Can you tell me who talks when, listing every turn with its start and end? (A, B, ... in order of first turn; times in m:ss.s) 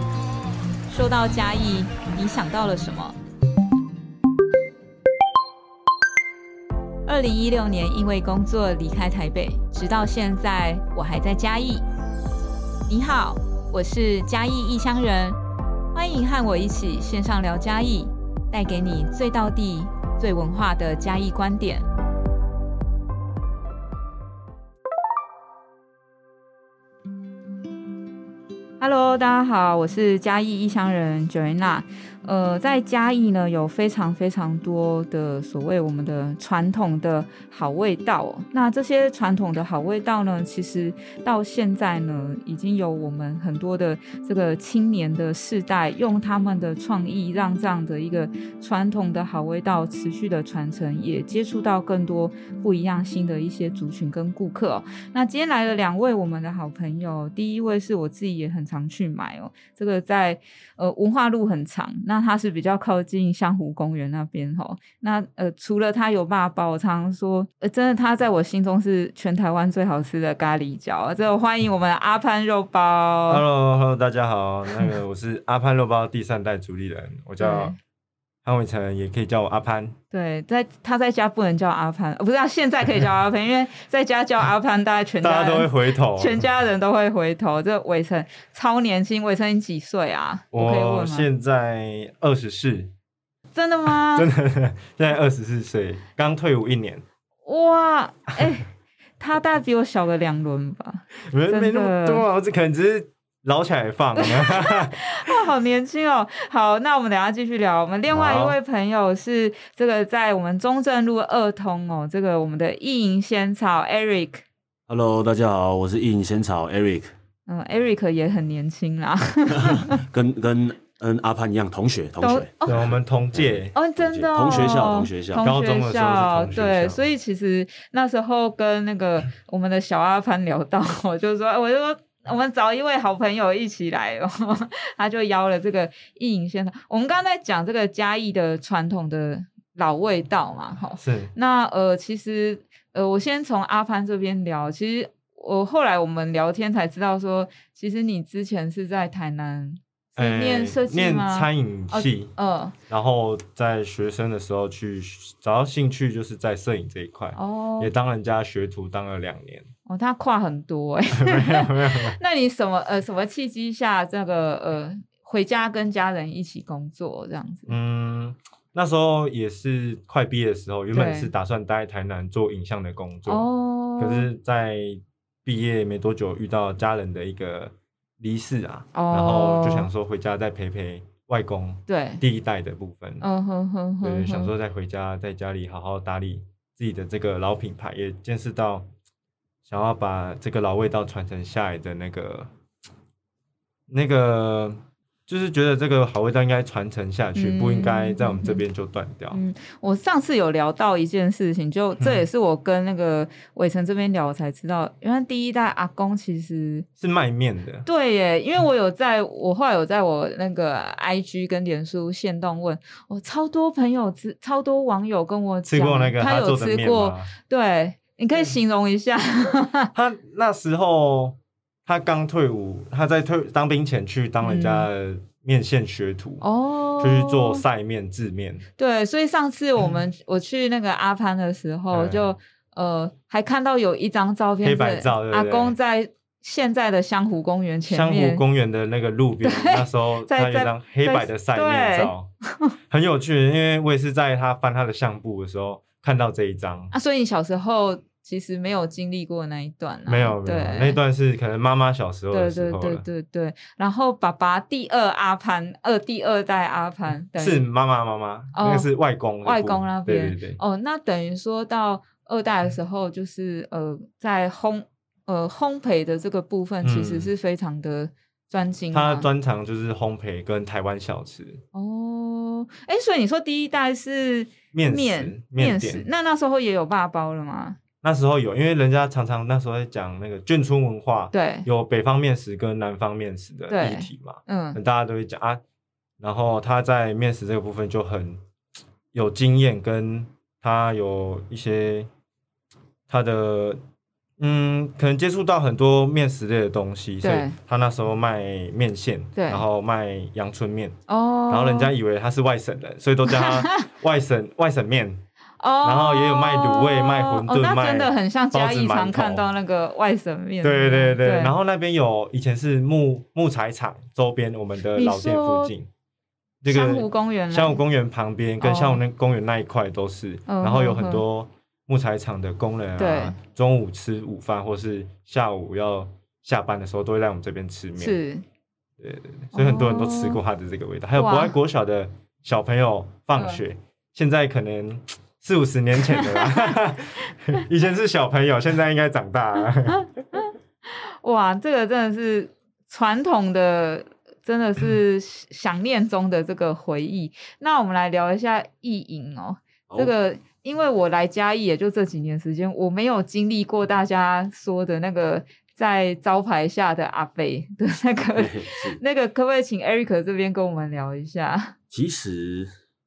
0:00.9-0:03.1 A
0:07.0-0:11.8 A
0:12.9-0:15.4 A
0:15.9-0:21.9 A
0:28.8-1:13.4 A
1:13.3-1:17.7 B
1:17.4-1:17.8 A
1:18.4-1:20.0 B
1:20.1-1:31.3 A
1:25.2-1:26.4 B
1:30.5-1:32.9 B
1:33.6-1:34.3 A
1:34.1-1:37.0 B
1:37.4-1:42.2 A
1:41.3-1:45.5 B
1:44.2-1:54.4 A
1:48.1-1:48.6 B
1:54.9-1:57.1 C
1:57.5-2:00.0 A
1:59.5-2:02.7 C
2:02.2-2:02.9 A
2:02.6-2:03.7 B
2:03.3-2:05.4 C
2:03.7-2:32.8 A
2:05.4-2:07.0 B
2:21.0-2:21.3 B
2:30.2-2:32.3 B
2:32.9-2:39.7 B
2:37.3-2:37.9 A
2:39.9-2:47.7 A
2:41.1-2:42.2 B
2:47.7-3:03.2 B
2:50.9-2:51.3 A
2:53.3-2:54.3 A
2:58.9-2:59.9 A
3:01.9-3:02.2 A
3:03.2-3:04.5 A
3:04.0-3:08.9 B
3:09.7-3:12.5 B
3:13.9-3:19.4 B
3:17.3-3:18.6 A
3:19.3-3:26.9 A
3:22.0-3:22.2 B
3:27.0-3:27.9 B
3:27.8-3:39.9 A
3:35.7-3:37.3 B
3:40.0-3:46.4 B
3:44.4-3:44.9 A
3:46.4-3:47.6 A
3:47.0-3:48.7 B
3:48.8-3:58.4 A
3:51.9-3:52.3 B
3:54.6-3:55.8 B
3:57.9-4:02.3 B
3:59.4-4:02.7 A
4:02.9-4:06.9 B
4:06.9-4:11.0 A
4:10.1-4:13.0 B
4:12.3-4:17.6 A
4:17.4-4:20.6 B
4:18.5-4:18.9 A
4:19.4-4:29.3 A
4:26.8-4:27.3 B
4:28.9-4:31.6 B
4:31.7-4:37.8 A
4:34.7-4:36.1 B
4:38.0-4:45.6 B
4:41.3-4:41.7 A
4:43.7-4:44.8 A
4:46.2-4:48.4 B
4:49.1-4:52.1 B
4:53.1-4:53.8 B
4:54.4-5:00.9 B
4:57.2-4:57.5 A
4:59.4-4:59.6 A
5:01.1-5:01.9 A
5:01.5-5:05.2 B
5:03.3-5:03.9 A
5:05.6-5:11.5 A
5:05.8-5:09.4 B
5:10.6-5:15.9 B
5:15.0-5:15.7 A
5:16.6-5:28.2 B
5:16.7-5:17.8 A
5:18.6-5:19.0 A
5:20.5-5:21.2 A
5:23.0-5:23.4 A
5:28.0-5:28.4 A
5:29.0-5:40.4 B
5:29.5-5:30.4 A
5:31.2-5:31.6 A
5:33.4-5:33.6 A
5:36.1-5:36.7 A
5:39.9-6:01.7 A
5:58.4-5:59.0 C
6:01.9-6:02.7 C